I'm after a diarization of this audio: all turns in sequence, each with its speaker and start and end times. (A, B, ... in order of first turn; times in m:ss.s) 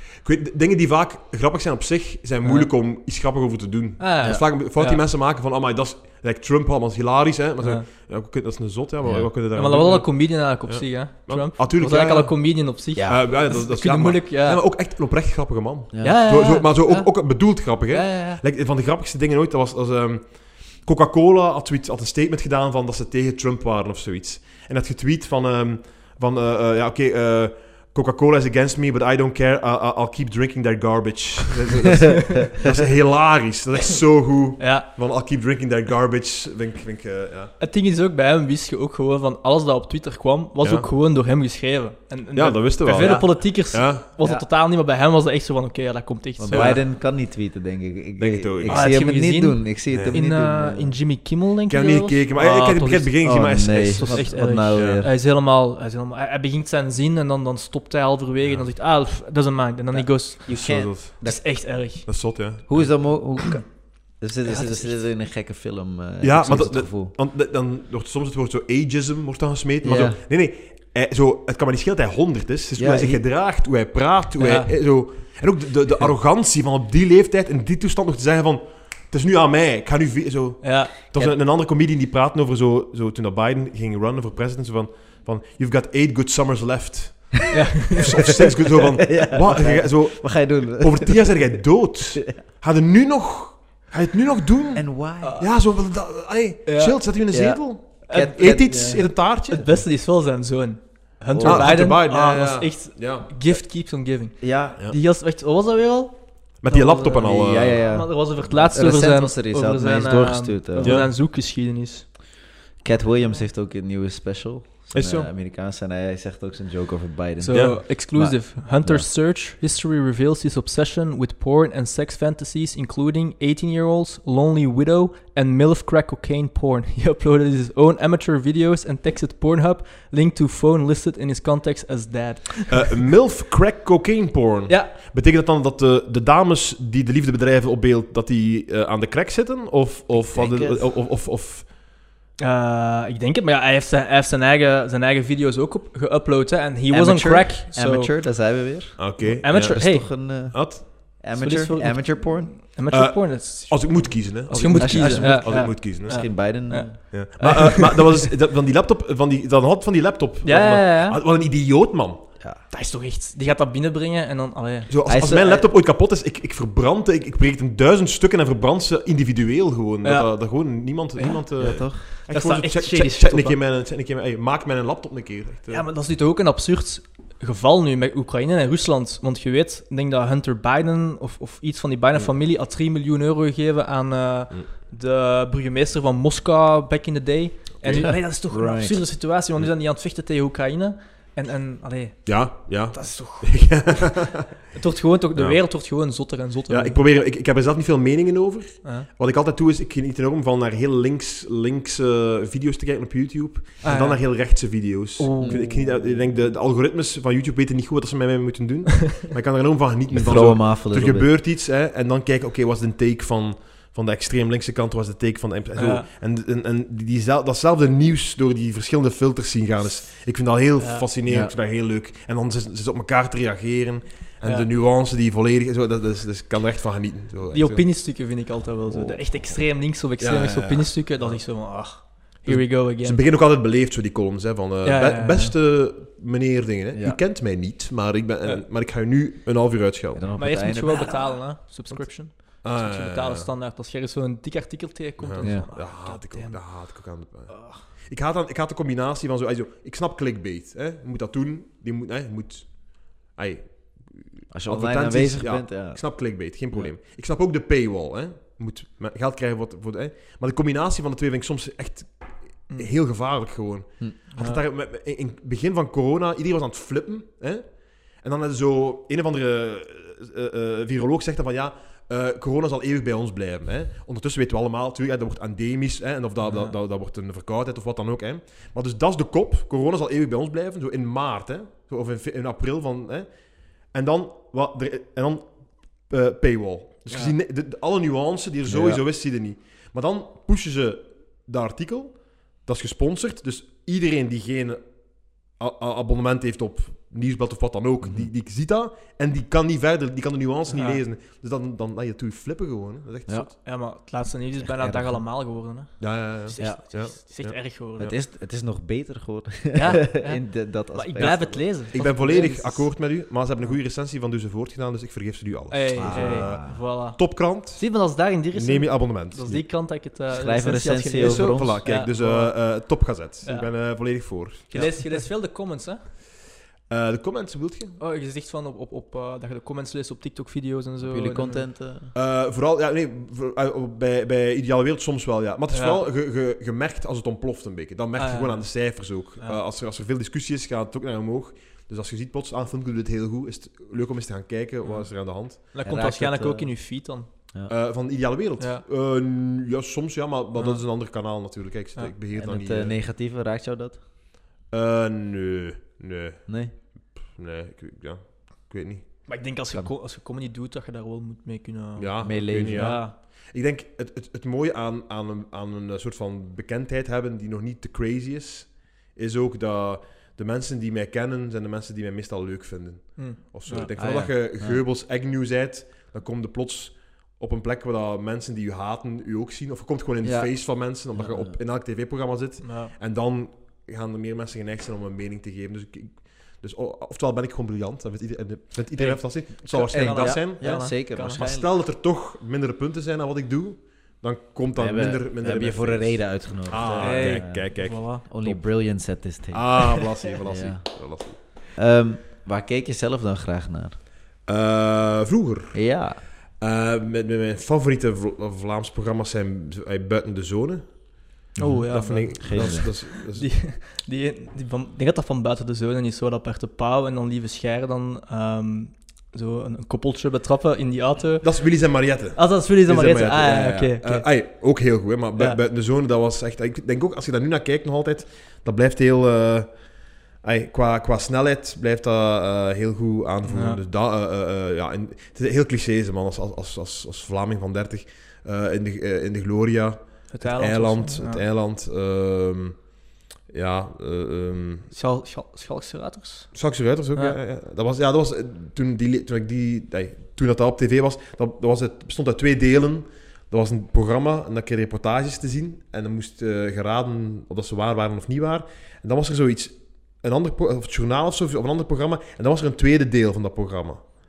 0:00.2-0:37.5 A
0:02.4-0:02.7 B
0:04.0-0:05.0 B
0:09.0-0:09.3 C
0:09.5-0:14.6 B
0:12.9-0:13.2 C
0:15.9-0:16.2 C
0:16.0-0:18.4 B
0:34.6-0:34.9 B
0:37.6-0:46.8 B
0:40.6-0:40.9 A
0:42.3-0:44.0 A
0:44.2-0:44.4 C
0:46.4-0:51.0 C
0:46.5-0:46.8 A
0:48.2-0:48.9 A
0:48.7-1:02.3 B
0:49.9-0:50.2 A
0:51.7-0:55.1 A
0:53.2-0:55.1 C
0:58.4-0:58.7 A
0:59.9-1:02.1 C
1:00.5-1:03.2 A
1:02.7-1:07.1 C
1:04.4-1:04.9 B
1:06.2-1:39.8 A
1:09.8-1:10.2 C
1:12.8-1:13.2 C
1:14.4-1:14.7 B
1:20.6-1:20.9 B
1:27.5-1:28.4 B
1:28.8-1:31.6 C
1:32.2-1:32.4 C
1:34.7-1:35.4 C
1:35.2-1:35.6 B
1:36.6-1:37.0 B
1:37.3-1:39.0 C
1:38.1-1:52.1 B
1:41.3-1:41.7 C
1:41.4-1:43.3 A
1:44.4-1:44.8 C
1:46.6-1:47.8 A
1:47.2-1:51.0 C
1:50.8-1:51.1 A
1:52.8-1:59.1 C
1:54.9-1:55.3 A
1:57.4-2:13.0 B
1:57.5-1:57.8 A
2:12.7-2:21.7 A
2:14.7-2:14.9 B
2:20.2-2:20.9 C
2:22.4-2:28.1 B
2:26.9-2:32.5 C
2:29.0-2:30.9 A
2:29.2-2:30.1 B
2:31.3-2:38.0 B
2:32.9-2:36.2 A
2:34.7-2:37.9 C
2:37.1-2:42.2 A
2:40.4-2:41.2 B
2:42.7-2:44.9 B
2:44.9-2:55.9 A
2:45.0-2:45.6 C
2:50.0-2:53.6 B
2:51.6-2:52.0 C
2:55.7-3:17.0 B
3:07.8-3:08.1 A
3:07.8-3:09.0 C
3:12.2-3:14.5 A
3:15.3-3:15.6 A
3:16.7-3:47.8 A
3:18.8-3:19.1 B
3:23.8-3:24.2 B
3:25.2-3:25.7 B
3:25.2-3:25.8 C
3:30.1-3:31.3 C
3:35.8-3:36.1 B
3:40.8-3:41.0 B
3:41.2-3:41.5 C
3:47.5-3:53.2 B
3:50.2-3:51.7 A
3:52.4-4:00.2 A
3:54.8-3:55.5 B
3:56.9-3:57.2 C
4:00.1-4:01.3 C
4:00.4-4:07.9 B
4:01.9-4:03.5 A
4:05.2-4:43.3 A
4:05.4-4:05.6 C
4:14.5-4:16.1 C
4:24.3-4:24.6 B
4:36.4-4:36.7 B
4:43.8-4:54.8 A
4:48.6-4:49.0 C
4:55.4-5:03.5 A
5:00.7-5:01.0 B
5:03.3-5:08.1 B
5:04.6-5:05.2 C
5:06.0-5:08.1 A
5:08.0-5:11.7 C
5:09.7-5:13.7 B
5:11.9-5:17.9 A
5:15.7-5:22.8 B
5:15.9-5:16.8 C
5:18.5-5:19.6 A
5:20.3-5:21.8 C
5:21.2-5:25.2 A
5:23.4-5:23.7 B
5:24.7-5:26.0 B
5:26.9-5:28.0 A
5:28.0-5:31.6 B
5:31.0-5:32.1 C
5:32.1-5:45.6 A
5:35.7-5:36.0 B
5:38.2-5:39.6 B
5:44.8-5:47.3 B
5:45.8-5:46.8 C
5:47.7-5:53.0 A
5:48.6-5:48.8 B
5:50.6-5:50.8 B
5:52.3-5:54.0 C
5:54.7-5:59.2 A
5:56.5-5:56.7 C
5:59.2-6:03.2 B
6:02.0-6:38.7 A
6:02.2-6:03.0 C
6:13.2-6:13.9 B
6:13.9-6:14.8 C
6:20.2-6:20.5 C
6:21.1-6:21.6 C
6:22.6-6:22.9 B
6:28.9-6:31.4 B
6:29.9-6:31.7 C
6:34.8-6:44.0 C
6:37.0-6:38.2 B
6:39.5-6:41.4 A
6:44.4-6:45.8 A
6:45.7-6:46.2 C
6:46.6-6:51.1 A
6:51.6-6:52.9 C
6:51.6-7:04.3 B
6:51.9-6:53.5 A
7:01.4-7:09.7 A
7:10.4-7:22.8 A
7:13.5-7:13.8 B
7:20.3-7:21.4 B
7:23.5-7:24.9 A
7:24.9-7:26.5 B
7:26.5-7:44.2 A